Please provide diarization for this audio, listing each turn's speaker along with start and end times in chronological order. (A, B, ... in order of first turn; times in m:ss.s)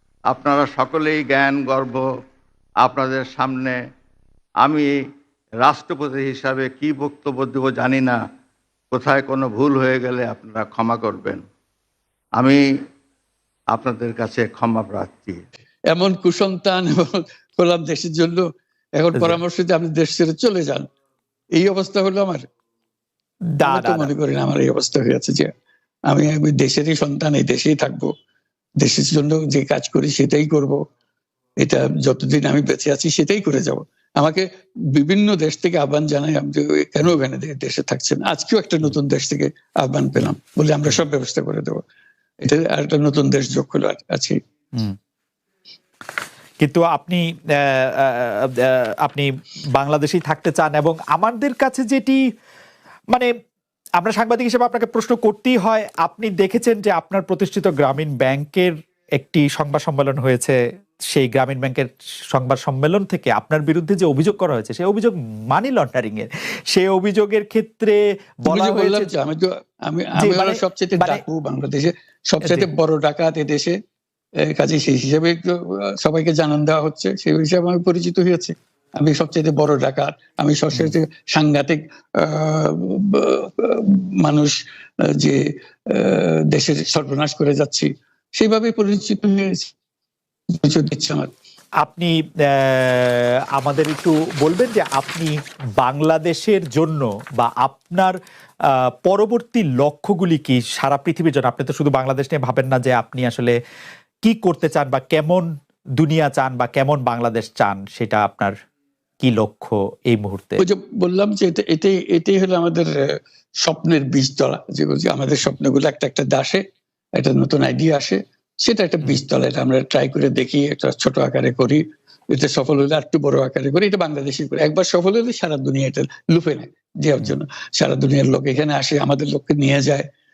0:00.3-0:02.0 A
0:02.8-0:03.8 A
0:04.6-0:04.9 A
0:05.6-0:08.2 A
0:08.9-0:11.4 A
0:13.7-0:15.4 A
0:15.9-0:18.4 B
0:19.0-0:20.9 B
0:21.5-0:22.4 B
0:23.6-0:24.1 C
0:23.6-0:25.5 B
0:26.1-0:28.1 B
0:28.8-0:30.8 B
0:31.6-0:41.8 B
0:42.4-0:44.4 B
0:46.6-0:52.2 C
0:54.0-1:00.6 C
1:01.1-1:09.1 C
1:08.5-1:13.8 B
1:10.2-1:11.2 C
1:12.4-1:12.7 C
1:14.4-1:29.7 B
1:30.5-1:31.3 B
1:31.8-1:38.2 C
1:38.7-1:43.5 C
1:44.2-1:48.5 C
1:49.2-1:50.6 C
1:50.6-2:10.1 B